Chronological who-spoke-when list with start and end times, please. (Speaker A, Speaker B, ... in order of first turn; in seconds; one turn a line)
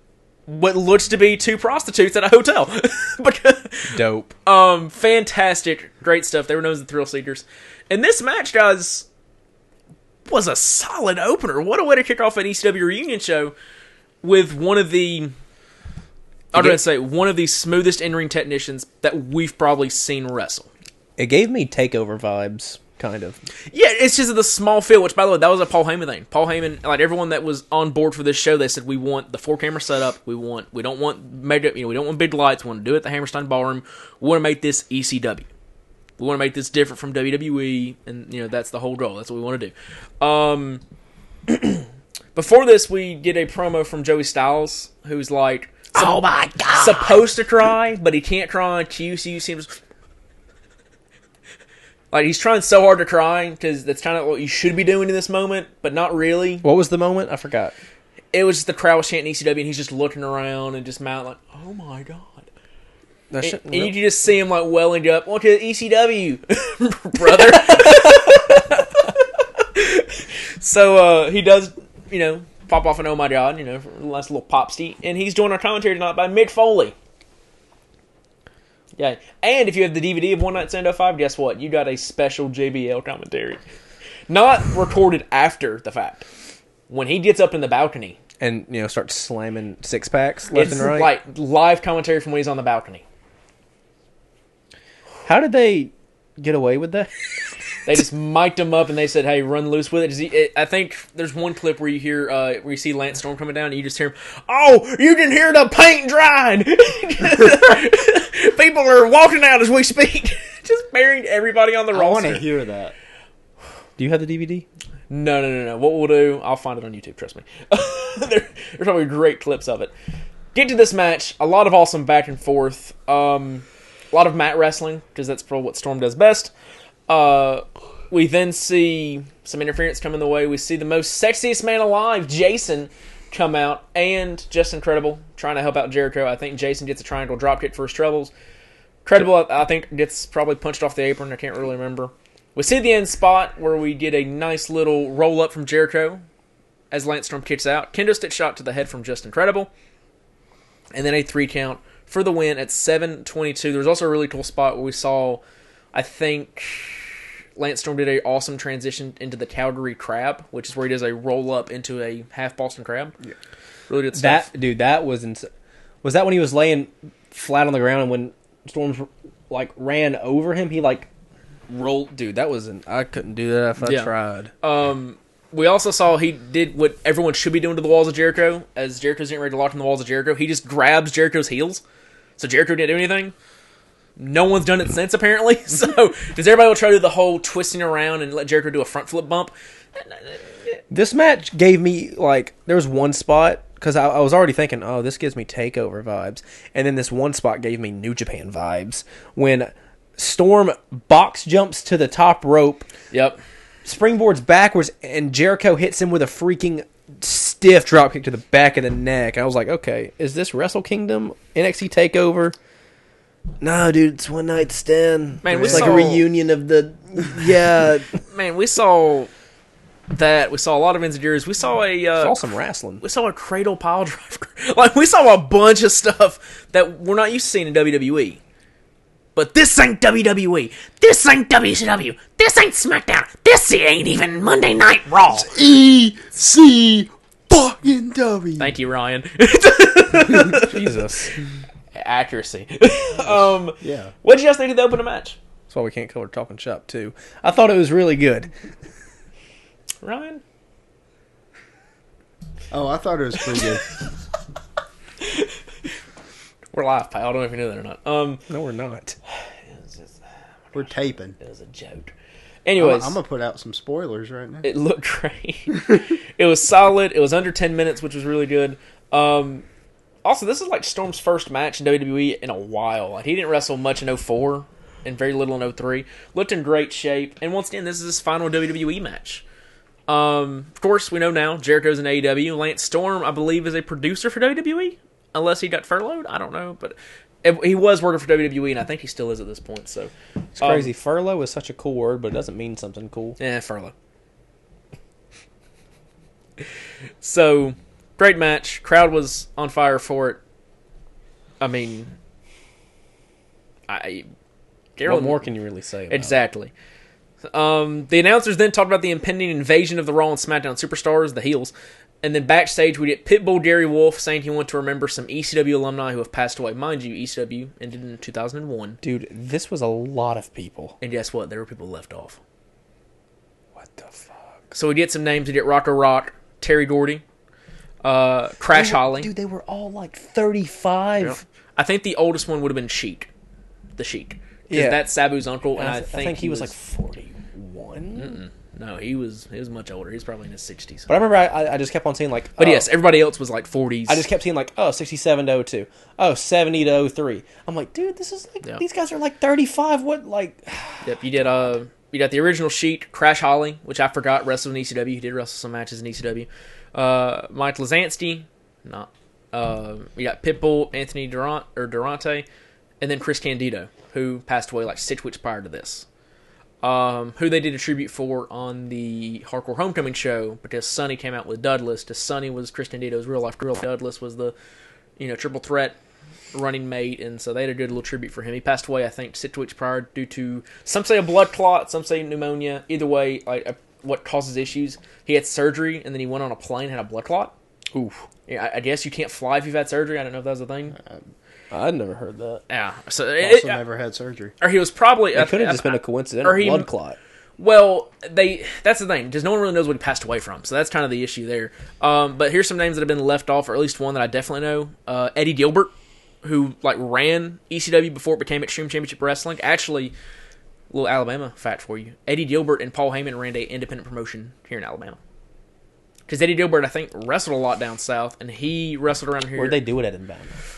Speaker A: 0.5-9.1
Speaker B: 3.9-4.3
Speaker A: 10.3-13.6
Speaker A: 14.2-15.3
Speaker A: 16.5-20.7
Speaker B: 16.5-16.8
Speaker B: 21.2-23.4
Speaker A: 23.7-35.5
Speaker A: 36.2-40.8
Speaker A: 41.5-49.8
Speaker B: 45.9-47.2
Speaker A: 52.1-56.6
Speaker B: 56.6-57.7
Speaker A: 58.3-62.5
Speaker B: 63.3-63.9
Speaker A: 63.4-77.0
Speaker B: 67.3-68.5
Speaker A: 79.0-83.6
Speaker A: 84.3-86.3
Speaker A: 86.9-88.2
Speaker B: 88.4-91.1
Speaker A: 90.5-93.0
Speaker B: 95.2-97.1
Speaker A: 97.8-112.5
Speaker C: 111.9-113.0
Speaker B: 114.0-114.7
Speaker A: 115.1-119.9
Speaker A: 120.5-126.5
Speaker A: 127.1-138.3
Speaker A: 139.1-146.2
Speaker A: 146.9-149.7
Speaker A: 150.9-155.4
Speaker A: 155.9-163.2
Speaker A: 163.9-164.5
Speaker B: 164.1-165.5
Speaker B: 166.0-171.1
Speaker B: 171.7-174.5
Speaker A: 173.8-181.8
Speaker A: 182.4-183.3
Speaker A: 184.2-190.8
Speaker B: 190.9-202.9
Speaker A: 203.1-203.4
Speaker B: 203.8-212.6
Speaker B: 213.6-218.2
Speaker A: 215.4-216.3
Speaker A: 218.3-219.3
Speaker A: 220.1-222.4
Speaker B: 222.2-223.0
Speaker A: 223.0-228.4
Speaker A: 229.3-235.5
Speaker C: 235.3-238.7
Speaker A: 238.6-240.9
Speaker B: 240.6-241.3
Speaker A: 241.9-245.4
Speaker C: 243.8-244.1
Speaker B: 245.7-248.5
Speaker A: 250.0-250.4
Speaker C: 252.7-254.0
Speaker A: 255.2-255.6
Speaker A: 256.7-258.4
Speaker B: 258.5-259.2
Speaker A: 259.4-260.2
Speaker C: 260.7-261.4
Speaker A: 261.4-262.1
Speaker A: 262.6-263.2
Speaker C: 262.8-264.7
Speaker A: 264.6-269.6
Speaker A: 270.2-279.4
Speaker A: 280.1-290.9
Speaker B: 290.6-293.4
Speaker A: 293.4-293.9
Speaker A: 297.2-300.4
Speaker A: 301.6-302.1
Speaker A: 303.9-304.3
Speaker A: 305.0-305.4
Speaker B: 305.1-306.4
Speaker A: 306.1-306.7
Speaker A: 307.5-319.0
Speaker B: 319.0-321.0
Speaker A: 321.0-322.4
Speaker B: 323.8-324.6
Speaker A: 324.7-327.2
Speaker A: 328.0-329.3
Speaker B: 328.7-331.4
Speaker A: 331.2-333.3
Speaker A: 334.0-336.7
Speaker B: 334.7-335.1
Speaker B: 335.8-338.4
Speaker A: 338.1-341.1
Speaker B: 341.1-342.9
Speaker A: 342.6-344.3
Speaker B: 344.1-351.2
Speaker A: 351.0-362.5
Speaker A: 363.0-366.1
Speaker A: 366.8-374.6
Speaker A: 375.2-376.0
Speaker A: 376.5-387.5
Speaker B: 387.9-388.2
Speaker A: 388.5-391.0
Speaker B: 391.7-392.6
Speaker A: 392.7-393.8
Speaker C: 393.4-394.6
Speaker A: 394.6-396.9
Speaker B: 395.3-397.2
Speaker A: 397.6-410.1
Speaker A: 410.9-415.2
Speaker A: 416.3-419.8
Speaker B: 419.6-420.5